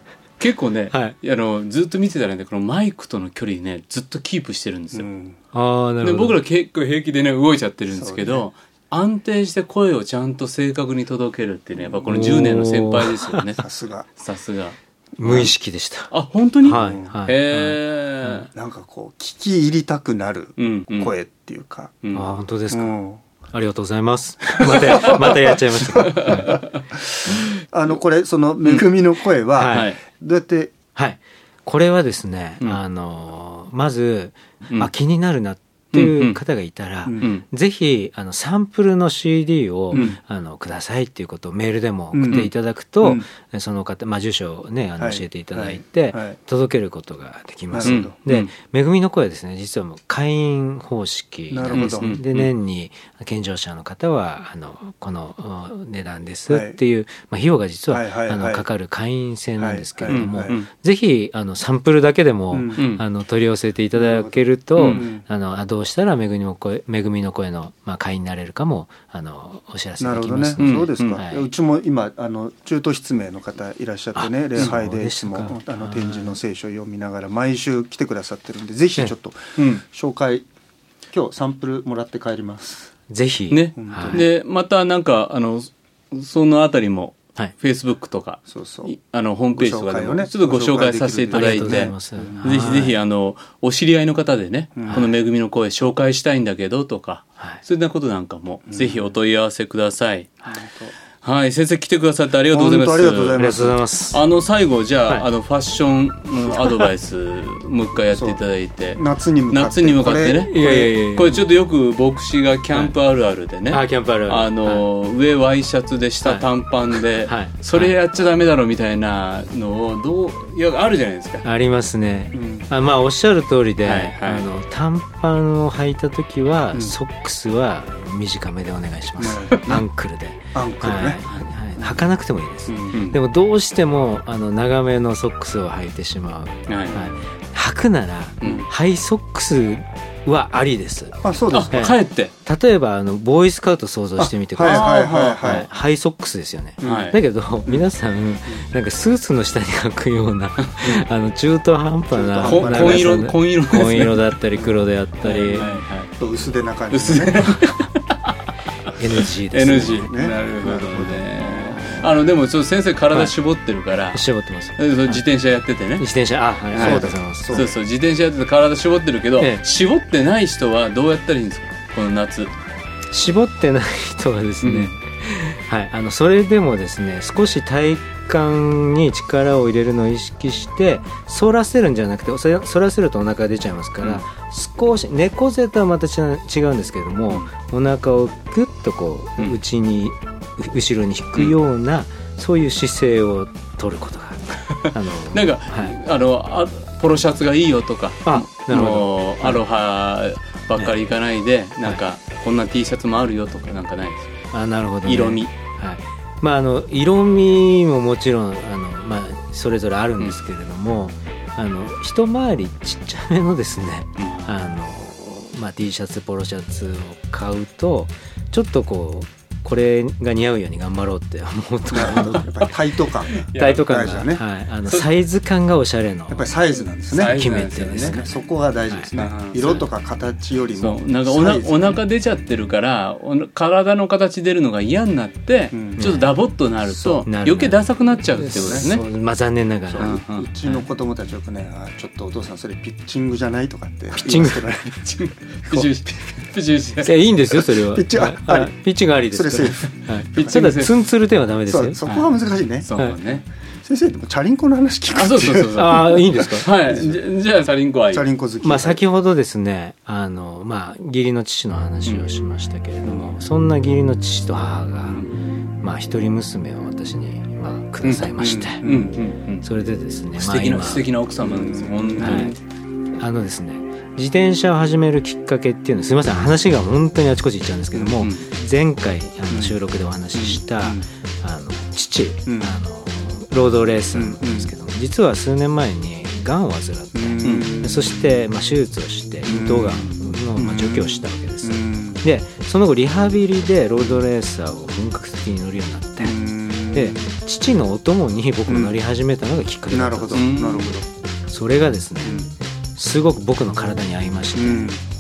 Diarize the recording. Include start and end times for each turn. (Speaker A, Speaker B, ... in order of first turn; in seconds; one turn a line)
Speaker A: 0.4-5.1
Speaker B: 4.9-5.4
Speaker C: 5.5-6.4
Speaker A: 6.0-13.7
Speaker B: 7.9-8.5
Speaker B: 11.8-12.1
Speaker C: 12.1-13.4
Speaker B: 13.6-14.1
Speaker A: 14.2-15.5
Speaker C: 15.2-16.1
Speaker A: 16.1-18.5
Speaker C: 16.6-18.5
Speaker B: 16.6-17.1
Speaker B: 18.5-22.0
Speaker A: 20.6-21.1
Speaker C: 22.1-22.9
Speaker B: 22.7-23.2
Speaker C: 23.5-26.6
Speaker B: 24.6-30.8
Speaker A: 24.6-25.2
Speaker A: 26.0-26.7
Speaker C: 29.6-29.9
Speaker A: 29.7-30.0
Speaker C: 30.9-71.5
Speaker A: 35.9-36.4
Speaker B: 37.1-37.3
Speaker B: 39.9-40.2
Speaker A: 39.9-40.2
Speaker B: 42.1-42.5
Speaker B: 45.0-46.4
Speaker B: 47.7-48.1
Speaker A: 47.8-48.5
Speaker B: 51.5-52.1
Speaker A: 51.7-52.5
Speaker B: 56.5-56.8
Speaker B: 57.9-58.7
Speaker B: 59.6-60.6
Speaker A: 60.1-60.7
Speaker B: 62.5-62.9
Speaker A: 62.8-63.0
Speaker B: 63.9-65.2
Speaker A: 64.8-65.0
Speaker B: 70.0-80.5
Speaker A: 70.6-71.2
Speaker C: 74.2-76.4
Speaker A: 79.6-79.8
Speaker B: 81.1-82.9
Speaker C: 83.1-84.2
Speaker A: 83.5-100.4
Speaker B: 83.8-84.3
Speaker B: 88.5-88.9
Speaker B: 89.5-92.7
Speaker C: 91.3-93.0
Speaker B: 94.8-95.1
Speaker B: 98.7-99.1
Speaker B: 100.5-100.9
Speaker A: 101.2-103.4
Speaker B: 102.5-103.8
Speaker C: 103.4-104.2
Speaker A: 104.1-121.5
Speaker B: 108.1-108.4
Speaker B: 108.9-110.9
Speaker C: 110.5-111.5
Speaker C: 113.7-114.9
Speaker C: 116.2-117.9
Speaker C: 121.4-141.2
Speaker B: 122.3-122.7
Speaker A: 123.8-124.5
Speaker B: 129.2-129.8
Speaker B: 130.5-131.2
Speaker B: 131.8-132.0
Speaker B: 132.7-133.0
Speaker A: 132.9-133.2
Speaker A: 136.7-137.0
Speaker A: 138.4-138.7
Speaker B: 141.2-141.9
Speaker A: 141.5-142.3
Speaker C: 141.7-144.9
Speaker B: 144.2-145.7
Speaker A: 144.6-145.7
Speaker C: 145.4-155.7
Speaker B: 146.8-147.2
Speaker A: 146.8-147.2
Speaker B: 152.1-153.3
Speaker A: 152.4-154.3
Speaker A: 155.2-156.1
Speaker B: 155.5-157.5
Speaker A: 156.9-158.2
Speaker C: 158.9-160.1
Speaker A: 159.5-164.2
Speaker B: 160.1-162.2
Speaker C: 164.1-165.2
Speaker A: 164.8-166.1
Speaker C: 166.0-167.7
Speaker A: 166.7-172.6
Speaker B: 166.7-167.8
Speaker C: 169.4-169.6
Speaker C: 173.1-195.9
Speaker A: 174.6-174.9
Speaker A: 195.3-204.4
Speaker C: 198.3-199.6
Speaker C: 204.5-222.5
Speaker A: 205.0-205.5
Speaker A: 214.2-214.5
Speaker B: 221.9-224.4
Speaker A: 223.4-224.1
Speaker C: 223.6-226.5
Speaker B: 226.3-232.0
Speaker A: 227.1-228.3
Speaker C: 227.2-228.3
Speaker C: 228.9-229.1
Speaker A: 229.2-229.9
Speaker A: 230.8-239.0
Speaker B: 235.7-236.2
Speaker C: 236.0-236.3
Speaker B: 236.8-237.3
Speaker C: 237.2-237.8
Speaker C: 238.3-240.8
Speaker B: 238.5-238.9
Speaker B: 239.9-246.1
Speaker A: 240.0-240.5
Speaker C: 244.1-244.7
Speaker A: 244.9-247.2
Speaker C: 247.0-252.0
Speaker B: 247.7-250.7
Speaker A: 250.4-250.9
Speaker B: 251.7-252.9
Speaker A: 252.8-253.4
Speaker B: 253.8-257.2
Speaker A: 255.1-258.3
Speaker C: 255.8-256.7
Speaker B: 258.1-259.0
Speaker C: 258.6-265.3
Speaker C: 265.8-268.9
Speaker A: 268.0-269.6
Speaker B: 268.8-269.2
Speaker C: 269.6-271.1
Speaker A: 270.4-272.6
Speaker B: 271.4-272.6
Speaker C: 272.2-272.6
Speaker C: 273.2-296.4
Speaker A: 277.9-278.4
Speaker B: 279.5-279.8
Speaker B: 280.3-281.1
Speaker B: 282.5-282.7
Speaker B: 284.1-284.7
Speaker B: 287.1-288.4
Speaker A: 287.4-287.7
Speaker B: 289.4-292.2
Speaker B: 296.2-297.3
Speaker C: 296.9-300.5
Speaker B: 298.7-299.0
Speaker B: 299.9-301.1
Speaker A: 300.3-300.9
Speaker C: 301.5-302.4
Speaker B: 302.2-302.5
Speaker C: 303.0-304.9
Speaker B: 304.6-305.0